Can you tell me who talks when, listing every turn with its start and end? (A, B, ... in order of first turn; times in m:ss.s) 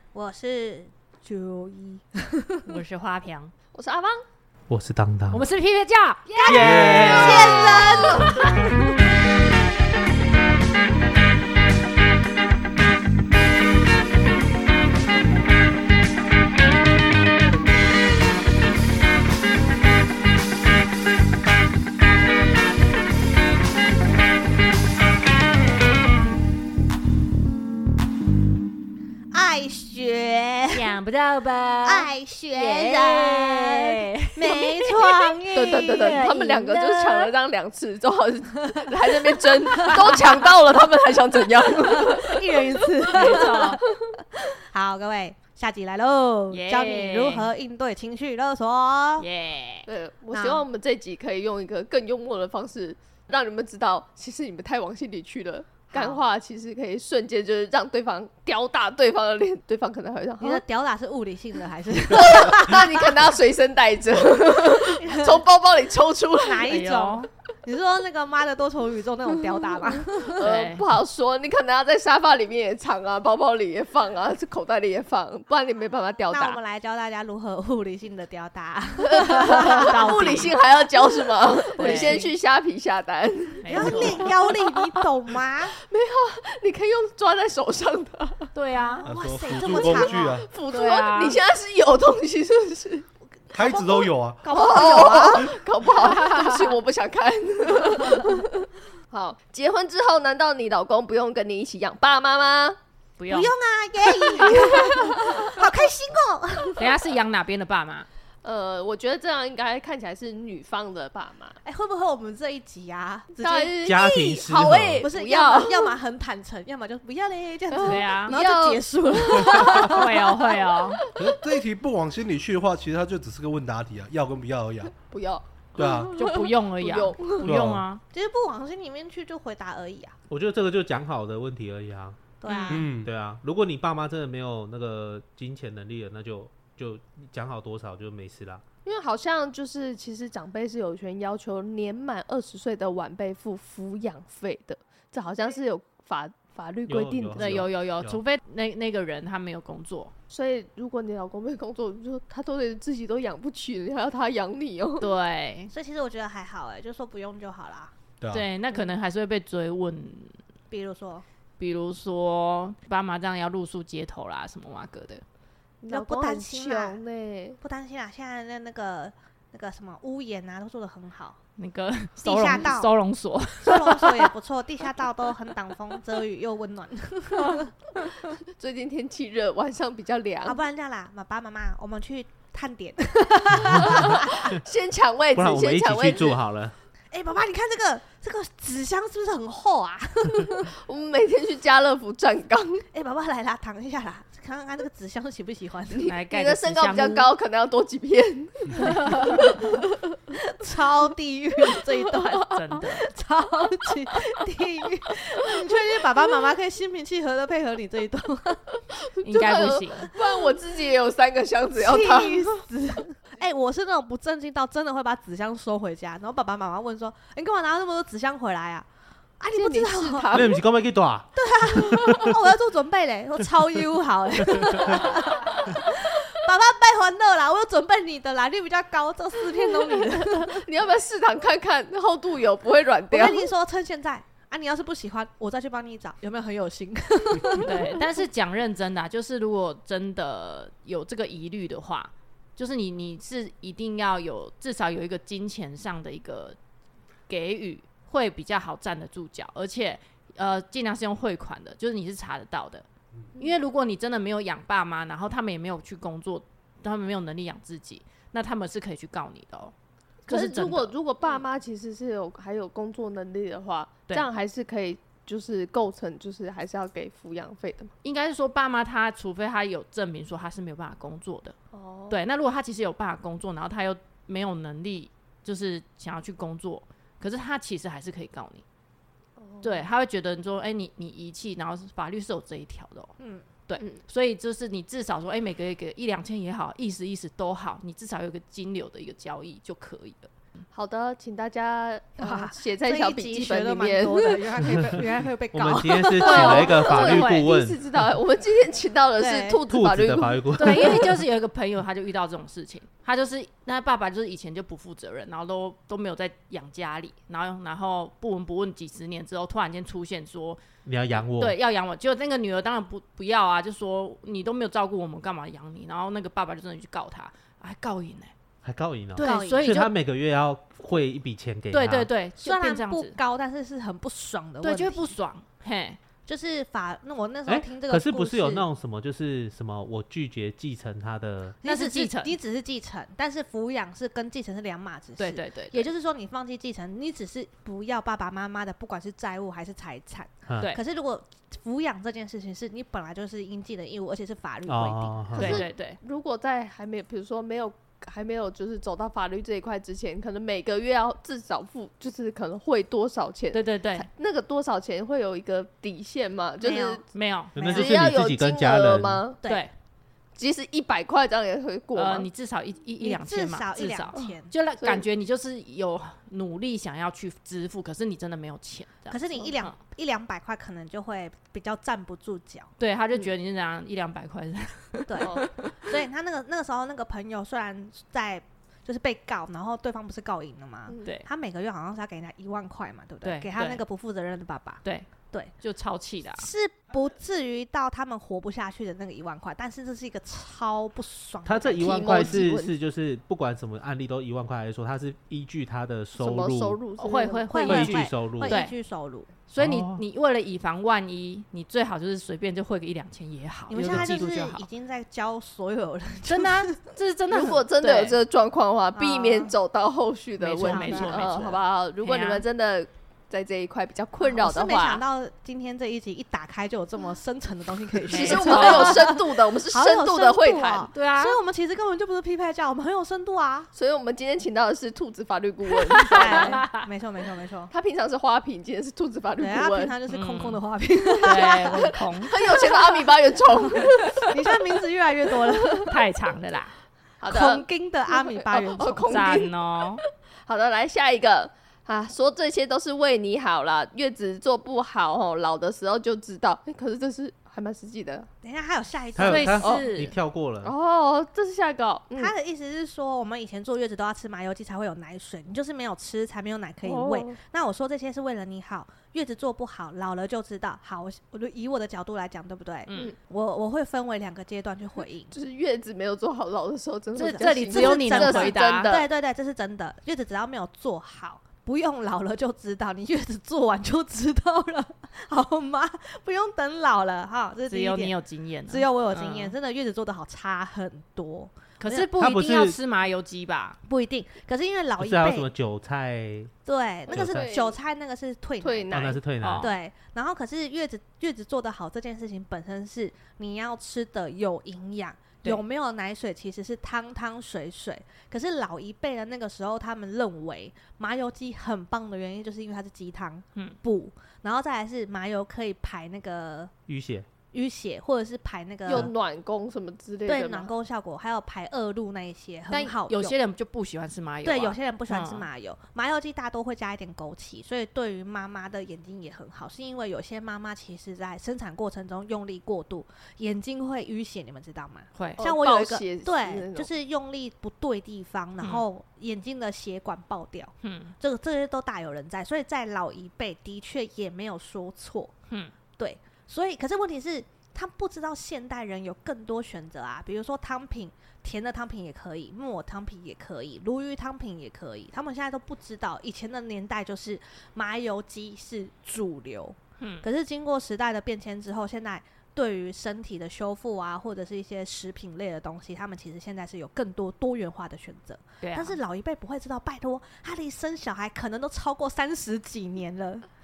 0:00.1-0:02.8 A
0:02.7-0:03.5 B
0:03.7-0:04.2 C
0:04.7-0:05.4 D
0:05.3-0:06.3 B
0:06.3-0:08.4 C
0:06.4-0:08.7 A
0:06.4-0:08.2 D
0:06.6-0:07.2 E
0:29.3-0:30.9 A
0:30.7-0:35.1 B
0:31.8-0:36.4 A
0:35.5-0:43.5 C
0:36.0-0:37.2 B
0:39.4-0:40.3 A
0:41.8-0:49.3 A
0:43.1-0:43.8 B
0:46.5-0:47.5 B
0:49.2-0:49.9 B
0:49.9-1:00.6 C
0:50.3-0:50.7 A
0:55.9-0:56.2 A
1:00.4-1:03.2 A
1:02.1-1:06.7 C
1:04.8-1:05.4 A
1:06.4-1:10.5 A
1:06.7-1:07.3 B
1:10.3-1:16.6 C
1:10.4-1:10.8 B
1:16.3-1:20.6 A
1:19.1-1:25.0 C
1:19.5-1:20.5 B
1:21.8-1:22.3 A
1:21.8-1:22.2 B
1:23.6-1:24.3 B
1:23.7-1:25.8 A
1:25.8-1:28.5 C
1:28.6-1:29.1 B
1:28.8-1:30.4 A
1:29.0-1:30.5 E
1:29.6-1:33.1 C
1:30.7-1:31.4 B
1:33.5-1:35.5 A
1:33.5-1:34.5 E
1:34.5-1:42.8 C
1:36.0-1:36.7 B
1:43.2-1:43.5 B
1:43.3-1:47.0 A
1:44.4-1:45.4 C
1:46.8-1:48.1 B
1:48.4-1:51.6 C
1:51.6-1:53.8 A
1:53.4-1:56.0 C
1:53.8-1:55.1 D
1:55.0-2:00.1 A
1:57.7-2:00.1 C
1:57.8-1:58.4 B
1:59.6-2:01.0 B
2:01.2-2:05.0 E
2:05.0-2:07.4 C
2:05.8-2:06.2 E
2:06.1-2:08.0 B
2:07.4-2:07.8 E
2:08.1-2:10.2 A
2:10.3-2:12.3 D
2:12.4-2:12.9 A
2:12.5-2:12.8 B
2:12.7-2:13.1 E
2:13.0-2:18.6 D
2:18.8-2:27.6 C
2:26.9-2:28.2 D
2:27.4-2:30.1 B
2:30.3-2:35.1 C
2:35.0-2:35.7 B
2:35.7-2:37.9 A
2:38.2-2:38.5 E
2:38.3-2:40.4 B
2:40.7-2:41.2 A
2:41.6-2:45.2 B
2:45.8-2:47.6 C
2:45.9-2:47.0 A
2:47.6-2:51.4 A
2:51.6-2:54.3 B
2:52.2-2:52.9 A
2:53.6-2:57.7 A
2:57.4-2:57.7 B
2:58.5-3:00.6 C
3:00.5-3:04.6 A
3:03.7-3:06.4 C
3:05.4-3:06.8 D
3:07.1-3:10.7 A
3:10.8-3:12.9 C
3:12.9-3:16.1 A
3:15.9-3:19.8 C
3:16.1-3:17.3 B
3:18.8-3:19.4 B
3:19.4-3:19.8 A
3:20.3-3:28.6 A
3:22.4-3:23.0 B
3:28.9-3:32.6 C
3:29.2-3:30.1 B
3:31.8-3:38.9 A
3:39.4-3:40.5 A
3:39.5-3:40.6 C
3:40.3-3:41.3 D
3:41.4-3:50.7 A
3:41.9-3:42.3 C
3:50.5-3:53.4 C
3:53.1-3:57.9 A
3:57.6-4:06.6 B
4:07.3-4:12.9 B
4:13.4-4:19.7 B
4:20.3-4:20.9 B
4:20.3-4:27.9 C
4:28.0-4:31.6 B
4:31.7-4:32.2 C
4:32.1-4:38.6 B
4:39.4-4:39.9 C
4:39.6-4:43.1 B
4:43.2-4:43.5 A
4:43.7-4:50.3 B
4:50.7-4:54.5 C
4:52.2-4:56.8 A
4:55.5-4:57.8 D
4:56.2-5:00.9 C
4:56.2-4:57.5 B
4:59.2-4:59.6 A
4:59.7-5:01.2 D
5:00.5-5:10.6 B
5:10.8-5:11.6 D
5:11.4-5:18.3 B
5:18.6-5:22.1 D
5:19.2-5:19.9 B
5:19.2-5:19.8 A
5:21.7-5:23.2 B
5:22.4-5:25.1 A
5:24.6-5:26.0 B
5:26.3-5:28.7 A
5:27.5-5:31.6 D
5:31.6-5:45.7 A
5:31.6-5:32.4 B
5:35.2-5:35.9 B
5:40.5-5:40.8 D
5:44.7-5:45.6 D
5:45.4-5:46.0 B
5:45.4-5:57.0 C
5:53.5-5:54.1 B
5:56.6-5:57.0 A
5:57.1-5:57.6 B
5:57.6-5:59.2 D
5:57.6-5:58.1 A
5:57.6-5:59.4 C
5:59.4-5:59.7 A
6:00.4-6:02.3 C
6:02.0-6:09.8 B
6:03.0-6:04.5 A
6:09.1-6:12.7 A
6:12.8-6:15.5 B
6:15.1-6:25.5 A
6:15.2-6:15.7 C
6:20.9-6:21.1 C
6:23.2-6:23.8 B
6:25.6-6:26.5 B
6:26.4-6:32.4 A
6:31.4-6:36.8 D
6:31.8-6:32.7 C
6:36.2-6:37.7 C
6:37.0-6:38.7 B
6:37.1-6:39.3 A
6:37.7-6:38.6 D
6:39.5-6:44.6 B
6:39.6-6:40.0 D
6:43.7-6:46.8 A
6:43.8-6:44.2 D
6:46.3-6:48.2 B
6:47.3-6:55.0 C
6:49.0-6:49.5 A
6:50.4-6:52.4 B
6:50.6-6:51.6 A
6:54.2-7:03.7 A
6:58.1-6:59.0 B
6:58.1-7:00.9 C
7:00.9-7:01.4 B
7:03.7-7:06.6 C
7:06.0-7:06.8 B
7:06.1-7:07.7 A
7:07.7-7:10.0 C
7:09.4-7:11.7 A
7:10.1-7:10.6 B
7:11.2-7:12.4 B
7:11.3-7:14.5 C
7:13.7-7:16.0 A
7:15.5-7:15.9 C
7:15.9-7:16.7 B
7:17.2-7:19.9 C
7:17.3-7:19.4 A
7:19.1-7:20.0 B
7:20.5-7:28.3 C
7:28.4-7:29.7 A
7:29.2-7:30.7 D
7:29.3-7:30.1 B
7:30.6-7:32.3 C
7:32.2-7:45.3 A
7:36.8-7:37.4 C
7:42.9-7:43.1 B
7:45.3-7:49.1 C
7:47.2-7:48.9 B
7:47.2-7:58.2 A
7:57.7-7:59.5 B
7:58.7-8:02.1 A
8:01.8-8:03.8 B
8:02.2-8:02.8 D
8:03.9-8:05.5 A
8:05.0-8:06.5 D
8:06.7-8:26.7 A
8:07.1-8:07.6 D
8:07.1-8:07.8 C
8:08.6-8:09.2 C
8:08.9-8:09.7 D
8:09.4-8:09.8 B
8:26.9-8:27.3 D
8:27.5-8:29.1 A
8:28.9-8:30.7 C
8:30.3-8:33.4 A
8:32.7-8:35.5 B
8:34.4-8:55.3 A
8:45.2-8:45.4 B
8:45.4-8:46.9 C
8:50.8-8:51.2 B
8:56.0-9:23.5 A
9:10.0-9:10.3 B
9:18.6-9:19.0 B